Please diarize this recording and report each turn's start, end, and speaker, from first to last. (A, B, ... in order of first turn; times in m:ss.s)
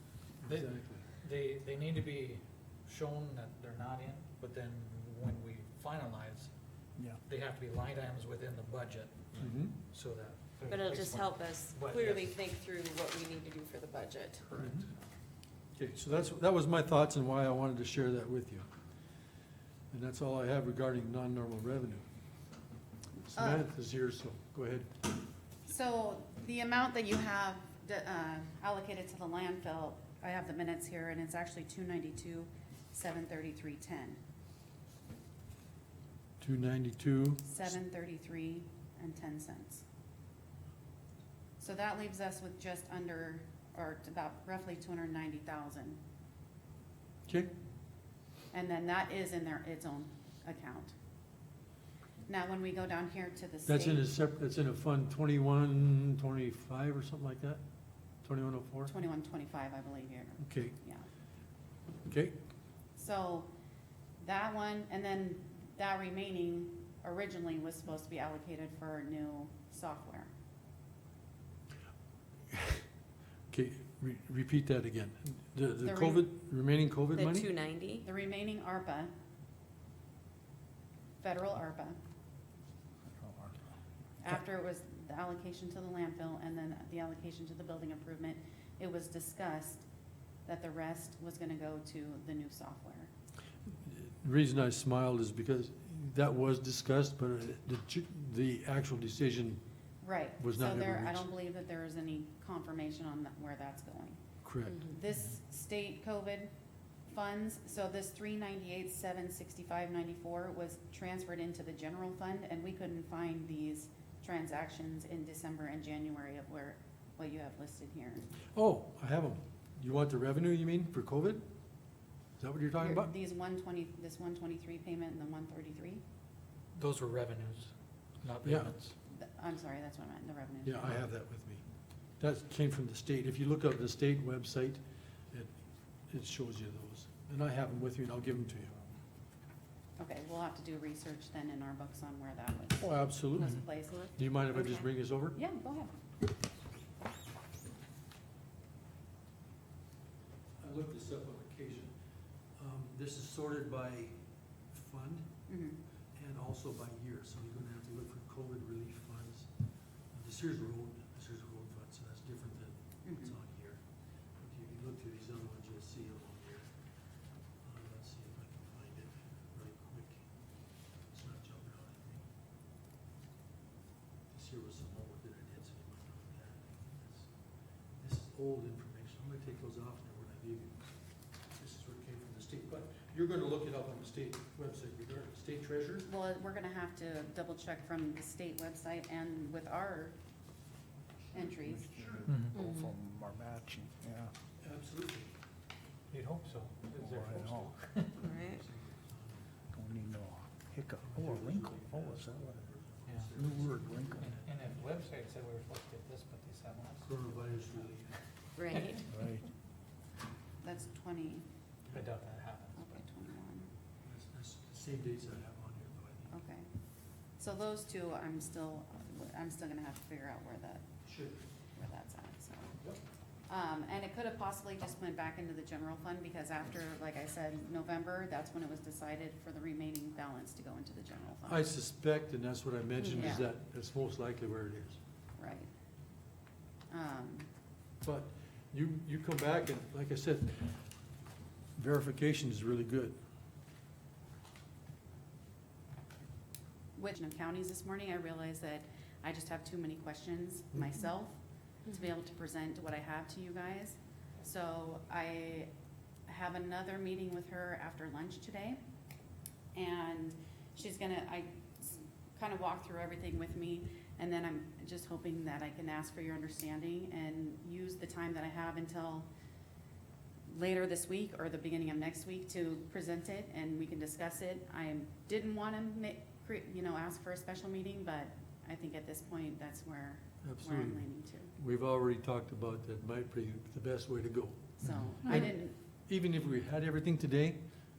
0:00.4-0:01.1 A
0:00.4-0:06.5 B
0:07.2-0:12.4 B
0:09.4-0:09.8 A
0:10.7-0:14.9 C
0:14.6-0:14.9 A
0:15.8-0:18.7 A
0:19.9-0:22.0 A
0:23.2-0:23.6 D
0:23.3-0:24.9 A
0:25.6-0:34.2 D
0:36.4-0:37.7 A
0:37.4-0:39.8 D
0:41.6-0:46.0 D
0:47.3-0:47.6 A
0:48.5-0:51.0 D
0:52.3-0:54.1 D
0:53.7-0:57.6 A
0:58.2-0:58.9 A
0:58.9-1:01.1 D
1:00.4-1:00.8 A
1:02.1-1:02.4 A
1:03.0-1:03.5 D
1:04.2-1:10.3 D
1:12.5-1:12.9 A
1:13.5-1:17.5 A
1:15.8-1:16.3 D
1:17.1-1:18.1 C
1:18.0-1:19.1 D
1:21.2-1:22.0 D
1:23.2-1:23.6 E
1:24.2-1:29.9 D
1:30.4-1:33.1 D
1:33.7-1:39.6 A
1:40.0-1:44.2 D
1:40.4-1:41.3 A
1:44.4-1:44.8 A
1:44.7-1:45.0 C
1:44.8-1:46.5 D
1:47.1-1:58.3 D
1:58.5-2:01.4 A
2:02.4-2:03.1 A
2:02.8-2:06.0 D
2:06.8-2:08.9 B
2:08.4-2:08.8 A
2:09.1-2:11.0 D
2:10.6-2:11.6 A
2:12.2-2:15.6 A
2:16.1-2:18.8 A
2:20.0-2:25.9 D
2:22.8-2:25.4 A
2:30.6-2:32.0 A
2:32.6-2:34.2 A
2:34.7-2:35.4 A
2:35.5-2:35.8 D
2:36.2-2:39.5 A
2:40.1-2:43.8 A
2:43.0-2:43.3 D
2:44.4-2:46.7 A
2:47.6-2:50.2 A
2:51.1-2:52.3 A
2:54.3-2:57.3 A
2:58.0-3:01.0 A
3:01.5-3:06.1 A
3:06.0-3:10.2 D
3:11.3-3:12.0 D
3:11.6-3:14.3 E
3:12.0-3:12.4 A
3:12.3-3:12.6 B
3:12.5-3:12.9 C
3:14.6-3:15.3 A
3:16.1-3:18.3 B
3:17.0-3:17.7 E
3:18.2-3:18.6 C
3:18.3-3:19.5 A
3:19.7-3:22.6 E
3:21.0-3:24.6 A
3:23.1-3:23.3 B
3:23.4-3:24.4 E
3:24.2-3:27.2 B
3:27.0-3:28.2 A
3:28.6-3:29.0 C
3:29.1-3:29.5 E
3:30.6-3:31.4 D
3:31.9-3:33.0 B
3:32.8-3:33.7 D
3:34.0-3:36.4 A
3:36.3-3:36.7 D
3:37.4-3:40.9 D
3:41.0-3:41.4 A
3:41.8-3:42.8 D
3:43.5-3:51.7 D
3:51.4-3:55.0 A
3:53.0-3:53.4 C
3:53.1-3:53.5 D
3:55.4-3:55.7 D
3:56.9-3:57.5 D
3:58.0-4:00.9 A
4:01.8-4:03.2 A
4:07.0-4:11.4 D
4:11.9-4:15.7 D
4:16.3-4:18.8 D
4:19.7-4:29.3 D
4:30.5-4:41.5 D
4:40.4-4:47.6 A
4:44.8-4:45.8 D
4:44.8-4:45.1 B